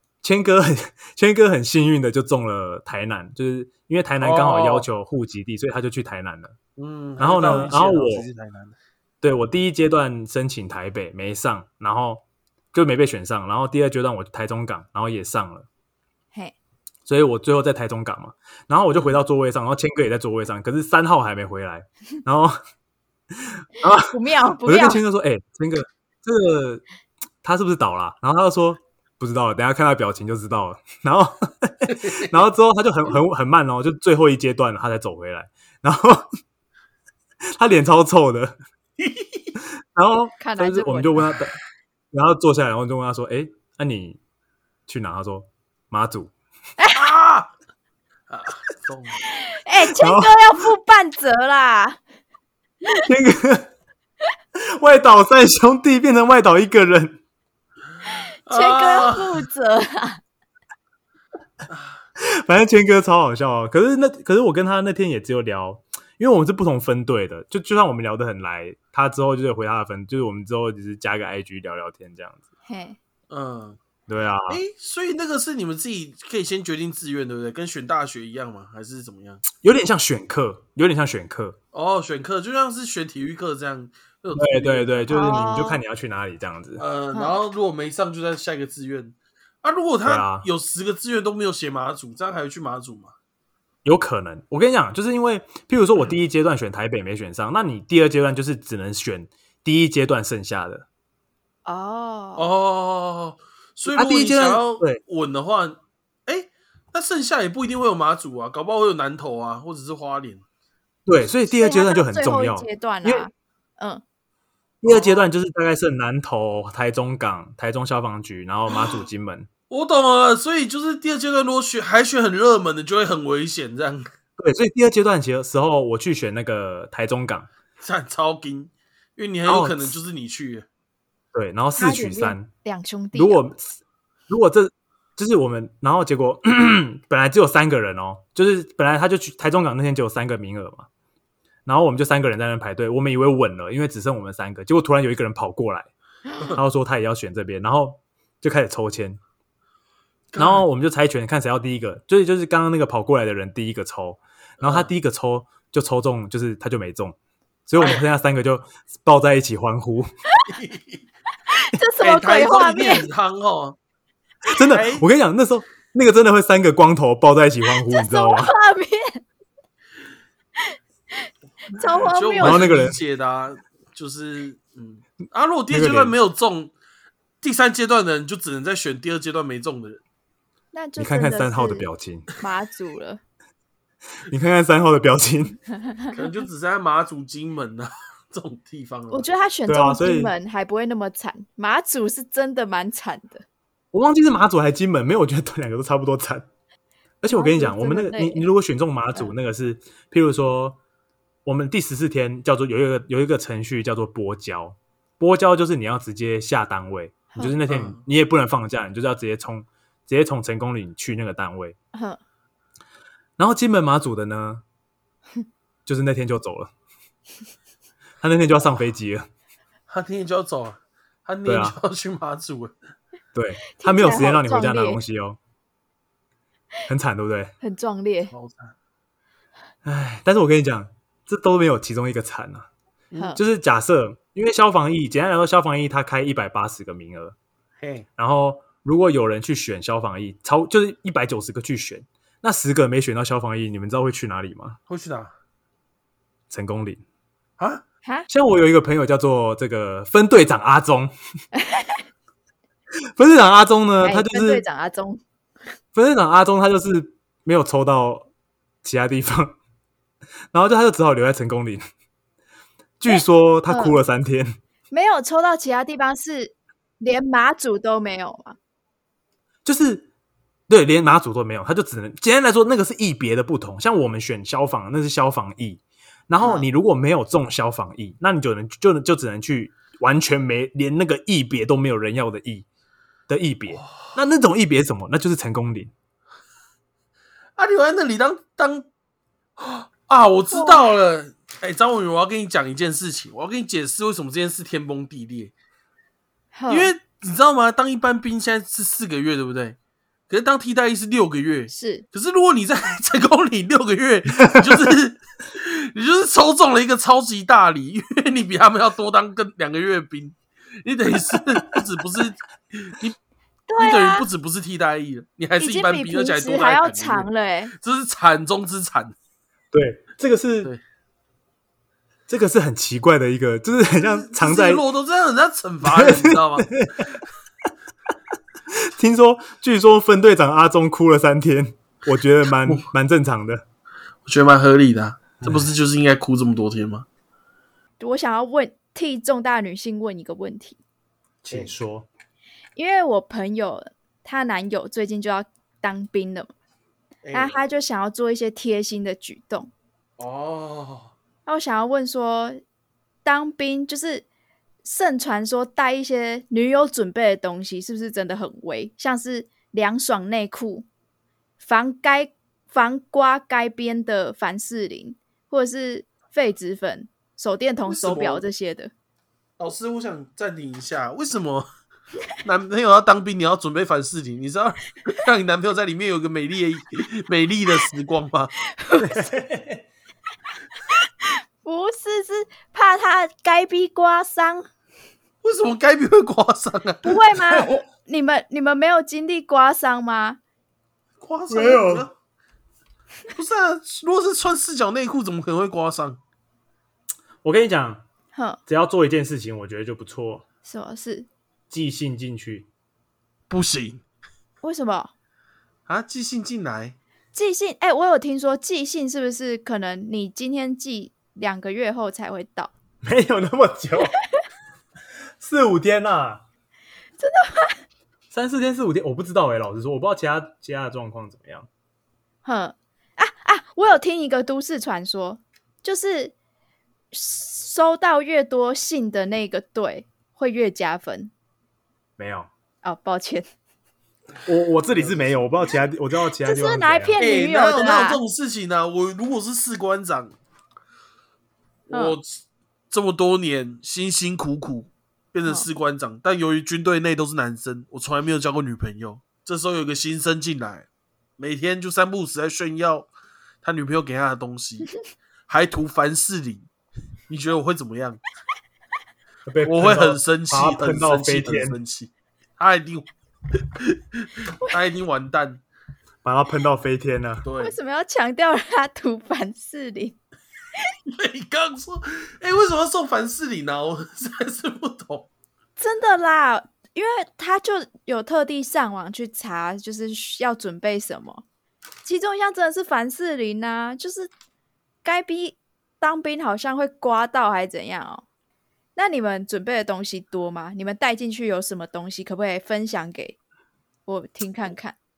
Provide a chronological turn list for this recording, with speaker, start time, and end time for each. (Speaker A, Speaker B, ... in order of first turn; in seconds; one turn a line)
Speaker A: 0.2-6.6
Speaker B: 4.2-4.9
Speaker B: 6.8-8.8
Speaker A: 7.2-8.3
Speaker A: 9.2-15.7
Speaker A: 17.1-22.6
Speaker A: 23.3-26.8
Speaker C: 24.1-25.0
Speaker A: 27.4-36.3
Speaker B: 31.9-32.3
Speaker A: 37.5-38.6
Speaker B: 39.0-39.5
Speaker A: 39.6-41.5
Speaker C: 40.4-41.2
Speaker A: 42.1-44.2
Speaker A: 44.9-46.3
Speaker C: 46.8-47.1
Speaker B: 47.0-47.5
Speaker B: 48.3-49.2
Speaker C: 49.4-52.0
Speaker A: 50.0-50.4
Speaker A: 53.0-53.7
Speaker A: 54.6-57.2
Speaker C: 58.1-60.2
Speaker B: 58.5-59.4
Speaker B: 61.7-62.0
Speaker A: 62.2-72.4
Speaker C: 72.7-73.0
Speaker B: 73.3-73.8
Speaker A: 74.1-74.6
Speaker B: 74.5-79.4
Speaker A: 79.6-81.6
Speaker B: 81.7-85.3
Speaker A: 84.3-86.8
Speaker C: 85.1-85.8
Speaker B: 86.8-93.1
Speaker A: 90.0-90.5
Speaker A: 93.8-100.9
Speaker C: 101.7-102.5
Speaker B: 102.4-110.4
Speaker A: 103.9-105.0
Speaker A: 111.1-113.3
Speaker C: 111.5-114.0
Speaker A: 114.8-119.5
Speaker B: 114.8-115.3
Speaker B: 119.7-124.0
Speaker A: 124.4-127.5
Speaker B: 127.8-130.7
Speaker A: 129.5-129.9
Speaker A: 131.3-132.5
Speaker C: 131.8-133.4
Speaker A: 133.1-133.8
Speaker A: 134.3-140.9
Speaker A: 141.7-145.9
Speaker A: 146.6-149.2
Speaker B: 150.3-150.7
Speaker A: 150.4-157.2
Speaker B: 154.6-154.9
Speaker A: 157.7-160.1
Speaker B: 157.8-158.1
Speaker B: 160.5-161.0
Speaker C: 161.5-163.1
Speaker B: 162.0-163.8
Speaker A: 164.5-168.5
Speaker B: 164.7-165.1
Speaker C: 167.9-169.2
Speaker C: 170.6-172.7
Speaker B: 172.0-176.7
Speaker A: 172.4-173.0
Speaker A: 175.7-176.2
Speaker B: 177.4-180.0
Speaker C: 180.7-181.9
Speaker A: 181.0-182.3
Speaker C: 182.4-183.2
Speaker A: 184.3-185.6
Speaker B: 186.1-189.3
Speaker C: 189.1-193.4
Speaker A: 189.7-190.3
Speaker A: 193.9-196.5
Speaker A: 197.2-200.8
Speaker C: 197.3-198.5
Speaker A: 201.4-211.8
Speaker B: 207.7-208.0
Speaker C: 211.9-212.2
Speaker A: 213.4-214.6
Speaker A: 215.9-216.7
Speaker A: 218.2-219.3
Speaker B: 219.9-222.8
Speaker A: 221.5-221.8
Speaker A: 223.3-225.4
Speaker C: 223.8-225.0
Speaker A: 226.9-227.5
Speaker C: 227.6-228.3
Speaker B: 228.3-228.7
Speaker A: 229.8-232.7
Speaker A: 233.4-237.4
Speaker B: 237.8-238.1
Speaker A: 238.2-244.8
Speaker B: 244.9-245.3
Speaker A: 246.5-247.0
Speaker A: 248.3-251.1
Speaker C: 251.5-252.0
Speaker A: 253.2-254.6
Speaker C: 254.0-255.2
Speaker A: 255.9-258.3
Speaker A: 258.8-259.6
Speaker A: 260.5-261.8
Speaker A: 263.0-264.6
Speaker C: 263.1-264.0
Speaker C: 264.9-268.6
Speaker A: 269.6-270.1
Speaker A: 270.7-282.7
Speaker A: 283.3-285.9
Speaker B: 287.6-288.9
Speaker B: 289.6-295.5
Speaker C: 290.5-290.8
Speaker C: 296.5-296.9
Speaker B: 296.7-299.8
Speaker B: 300.3-313.2
Speaker C: 301.7-302.1
Speaker C: 313.7-314.3
Speaker B: 313.8-319.1
Speaker C: 315.6-317.7
Speaker A: 319.7-320.7
Speaker A: 322.3-324.8
Speaker B: 324.0-326.7
Speaker A: 325.9-327.1
Speaker A: 328.7-333.6
Speaker B: 334.3-337.1
Speaker A: 335.4-335.7
Speaker C: 338.0-340.8
Speaker A: 341.4-342.1
Speaker C: 342.8-346.5
Speaker B: 347.2-347.6
Speaker C: 347.3-349.7
Speaker B: 350.2-351.1
Speaker C: 351.5-352.6
Speaker C: 353.2-354.2
Speaker C: 354.8-360.9
Speaker C: 361.6-368.9
Speaker B: 367.9-368.4
Speaker B: 369.6-371.7
Speaker B: 372.4-378.5
Speaker C: 378.8-379.2
Speaker A: 379.0-379.8
Speaker C: 381.2-384.7
Speaker B: 385.4-387.4
Speaker C: 387.0-390.4
Speaker B: 391.2-392.1
Speaker A: 391.5-392.1
Speaker B: 393.3-396.2
Speaker A: 397.4-398.0
Speaker C: 398.3-398.6
Speaker A: 398.7-400.4
Speaker C: 400.6-401.3
Speaker A: 401.7-402.7
Speaker B: 403.5-404.0
Speaker C: 404.6-405.1
Speaker B: 405.9-407.0
Speaker C: 407.3-412.7
Speaker A: 413.0-414.1
Speaker A: 415.4-416.4
Speaker C: 417.2-417.8
Speaker A: 418.3-421.7
Speaker C: 422.4-426.3
Speaker C: 427.1-431.3
Speaker A: 432.2-432.5
Speaker C: 432.8-433.5
Speaker A: 434.4-437.2
Speaker B: 434.9-435.4
Speaker C: 436.4-438.2
Speaker B: 437.2-440.4
Speaker B: 441.9-450.9
Speaker C: 441.9-442.2
Speaker B: 451.4-453.1
Speaker B: 453.6-454.9
Speaker B: 455.5-456.7
Speaker B: 457.3-458.2
Speaker A: 459.5-461.8
Speaker B: 459.6-465.6
Speaker A: 466.2-467.4
Speaker B: 467.4-467.8
Speaker C: 467.6-470.2
Speaker B: 471.1-475.3
Speaker C: 475.8-481.4
Speaker C: 482.0-484.3
Speaker C: 485.0-488.2
Speaker C: 489.0-493.4
Speaker C: 494.1-494.9